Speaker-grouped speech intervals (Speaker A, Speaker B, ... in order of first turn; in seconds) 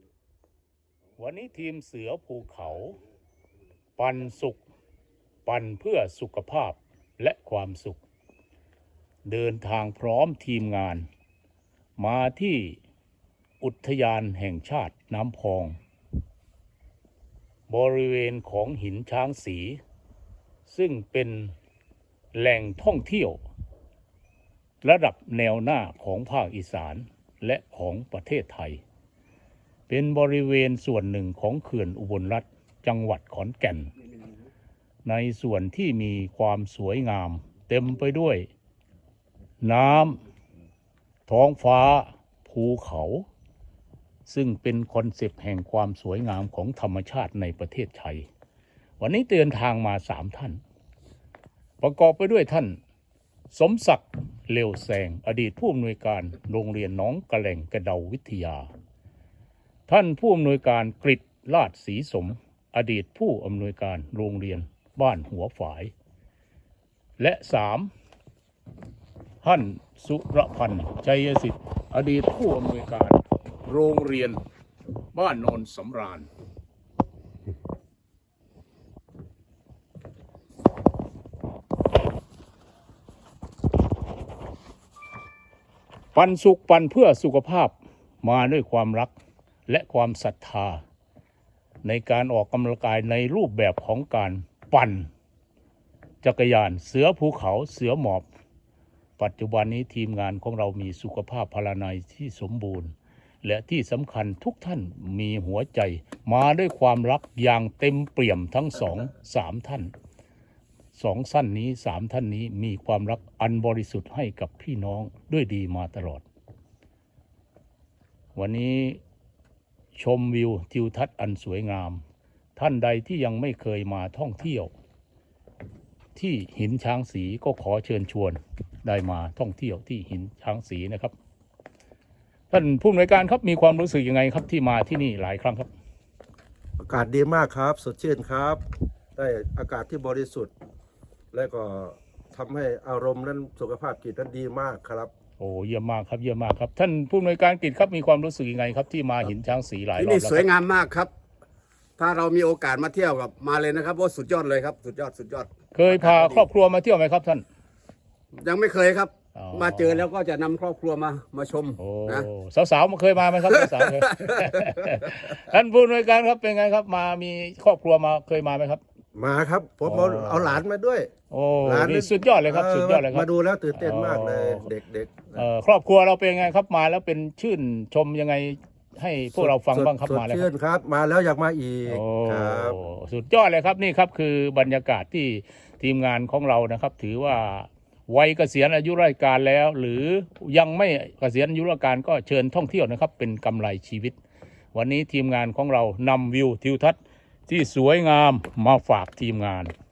Speaker A: 1.2-3.0, 4.0-4.6, 5.5-8.0, 9.2-11.1, 12.0-12.8, 13.6-15.8, 17.7-19.8, 20.6-21.5, 22.3-23.4, 24.8-28.8, 29.9-33.9, 35.0-38.5, 39.6-40.2, 41.3-43.2, 44.3-48.3, 49.0-50.6, 51.8-52.8, 53.5-58.7, 59.9-65.9, 67.2-67.9, 69.4-74.4, 75.1-76.3, 86.1-89.1, 89.7-90.8, 91.8-95.1, 96.2-98.3, 99.2-109.9, 110.9-116.2, 118.3-119.0, 119.9-122.0, 122.5-124.7, 126.1-131.1, 132.5-135.7, 145.4-150.5, 155.7-157.4, 159.3-160.1, 161.8-168.8, 169.8-170.6, 171.3-174.7, 175.3-180.5, 181.9-194.2, 194.7-199.7
Speaker B: 136.8-138.6, 139.2-140.5, 141.3-145.1, 169.1-171.1, 171.6-175.4, 179.3-182.8
Speaker C: 150.0-151.1, 152.0-156.4, 158.3-162.3, 163.4-165.2